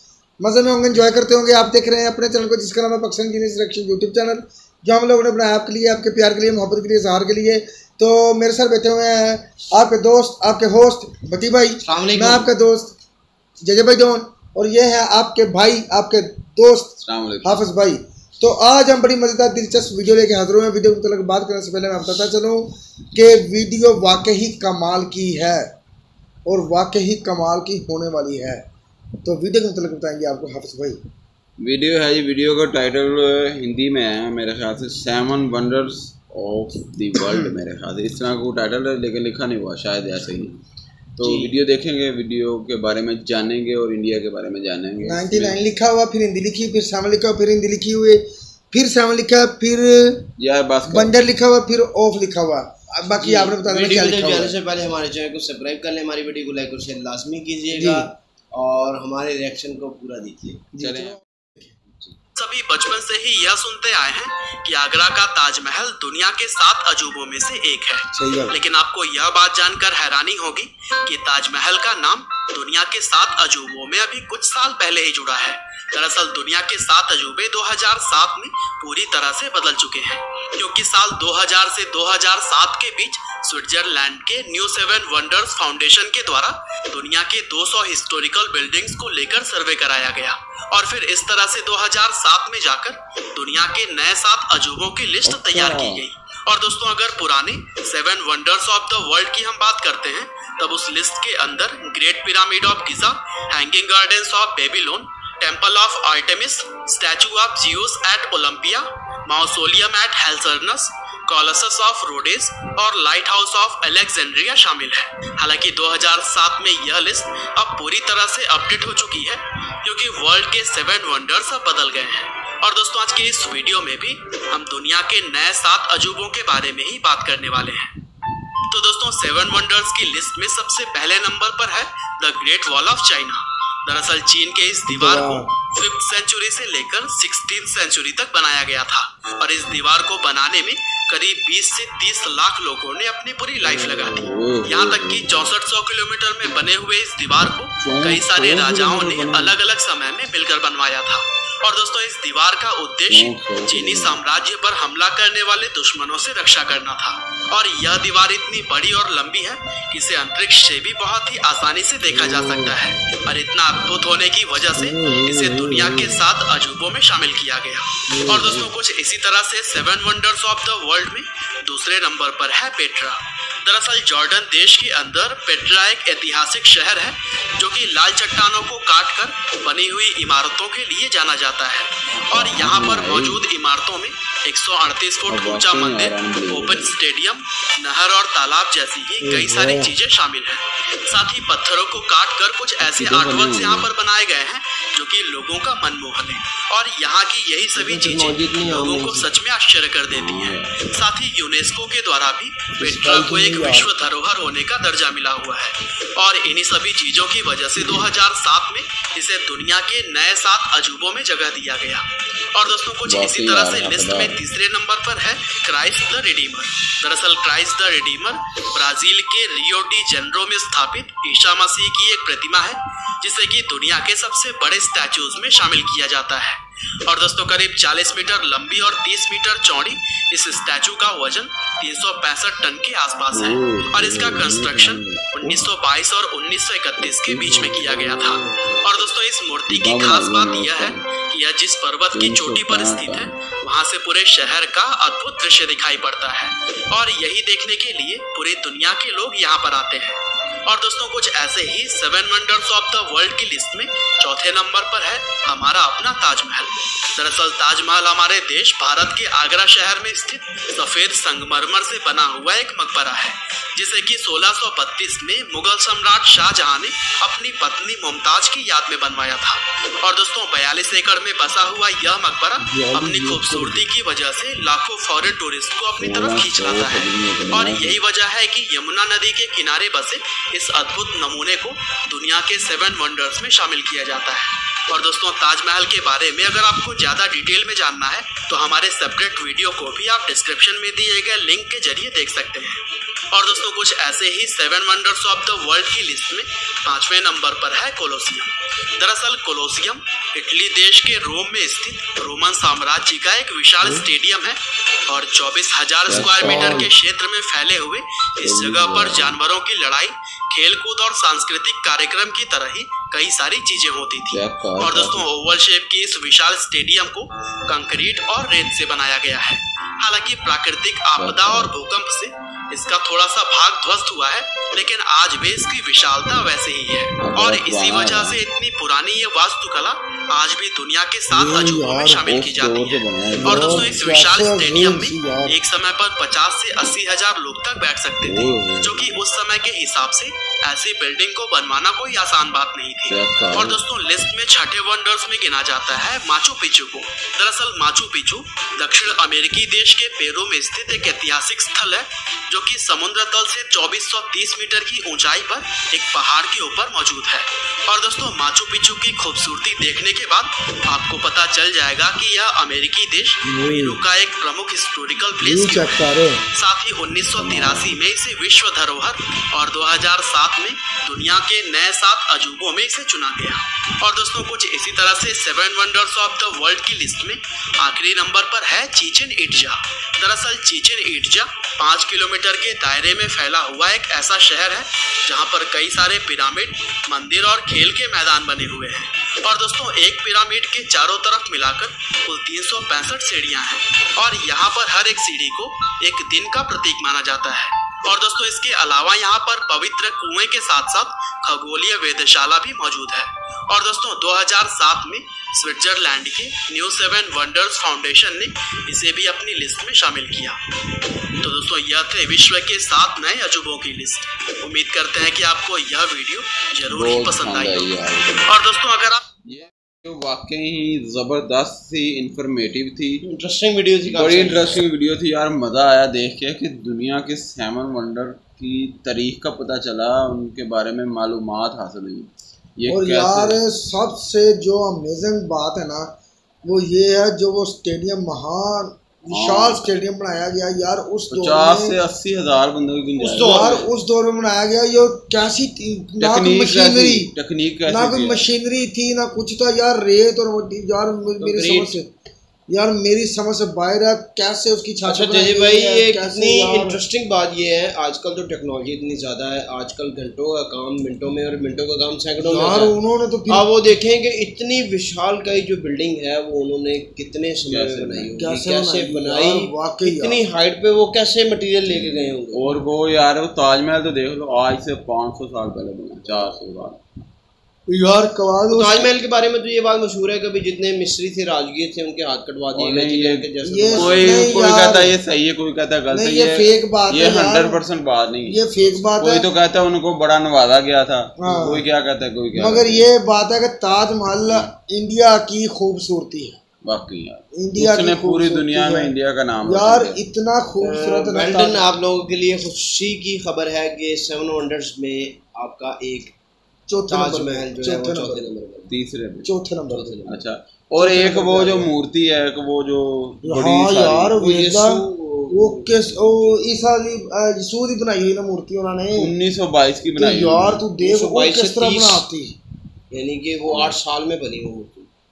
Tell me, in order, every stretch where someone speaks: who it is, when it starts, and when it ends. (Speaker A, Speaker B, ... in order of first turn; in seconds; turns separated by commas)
Speaker A: 0.4-12.9, Speaker B: 11.8-12.5, Speaker A: 13.6-25.6, Speaker C: 17.0-17.6, Speaker A: 26.4-28.6, Speaker A: 29.2-31.0, Speaker C: 31.6-40.6, Speaker A: 37.2-37.5, Speaker C: 41.1-45.6, Speaker B: 41.2-41.5, Speaker A: 45.0-50.3, Speaker C: 50.4-51.2, Speaker A: 50.9-54.5, Speaker B: 53.0-60.7, Speaker A: 57.7-58.1, Speaker A: 60.7-61.7, Speaker C: 60.8-61.2, Speaker D: 62.4-128.0, Speaker A: 68.1-68.5, Speaker C: 95.2-96.0, Speaker D: 128.6-410.6, Speaker A: 134.9-135.5, Speaker C: 143.6-145.3, Speaker C: 147.8-149.6, Speaker C: 153.1-154.2, Speaker A: 164.8-166.2, Speaker A: 168.1-168.7, Speaker C: 182.1-183.4, Speaker C: 185.3-186.9, Speaker A: 189.2-189.9, Speaker C: 192.9-193.9, Speaker B: 197.8-199.3, Speaker C: 200.1-200.8, Speaker A: 202.8-203.9, Speaker C: 213.1-214.4, Speaker C: 233.3-235.7, Speaker C: 237.2-238.7, Speaker C: 239.7-241.0, Speaker C: 242.1-243.3, Speaker A: 272.6-273.8, Speaker C: 276.0-278.0, Speaker C: 306.1-306.9, Speaker C: 308.4-309.4, Speaker C: 314.3-315.3, Speaker C: 321.2-321.7, Speaker C: 327.2-328.4, Speaker A: 331.3-332.2, Speaker C: 332.2-333.9, Speaker A: 333.4-335.5, Speaker C: 338.2-339.1, Speaker C: 343.1-343.8, Speaker A: 363.4-364.0, Speaker A: 365.4-366.4, Speaker C: 367.4-368.0, Speaker D: 411.4-419.2, Speaker C: 416.9-418.5, Speaker C: 419.4-423.2, Speaker B: 423.2-424.8, Speaker C: 424.1-433.6, Speaker A: 432.9-436.1, Speaker A: 436.6-442.0, Speaker C: 439.3-439.9, Speaker C: 441.3-443.6, Speaker B: 443.2-443.9, Speaker A: 443.4-447.3, Speaker C: 446.2-448.5, Speaker A: 447.9-452.1, Speaker B: 451.4-452.0, Speaker A: 452.7-457.0, Speaker B: 455.0-462.9, Speaker A: 462.4-463.7, Speaker B: 463.5-472.7, Speaker C: 467.7-468.3, Speaker A: 468.4-470.4, Speaker C: 471.9-477.0, Speaker A: 477.9-479.1, Speaker B: 478.7-484.7, Speaker C: 482.7-493.1, Speaker A: 483.6-485.1, Speaker A: 486.1-487.8, Speaker A: 488.5-489.4, Speaker A: 491.4-491.9, Speaker A: 492.5-496.6, Speaker C: 496.8-500.2, Speaker A: 497.6-499.1, Speaker A: 499.6-501.9, Speaker B: 500.8-506.3, Speaker A: 506.9-508.5, Speaker B: 507.1-508.9, Speaker C: 508.9-509.5, Speaker A: 509.4-510.2, Speaker B: 509.9-510.4, Speaker C: 510.2-514.3, Speaker A: 511.0-511.9, Speaker A: 513.4-519.3, Speaker B: 514.3-516.6, Speaker C: 519.2-520.9, Speaker A: 520.1-522.5, Speaker B: 521.0-522.3, Speaker B: 523.1-525.1, Speaker C: 523.7-524.0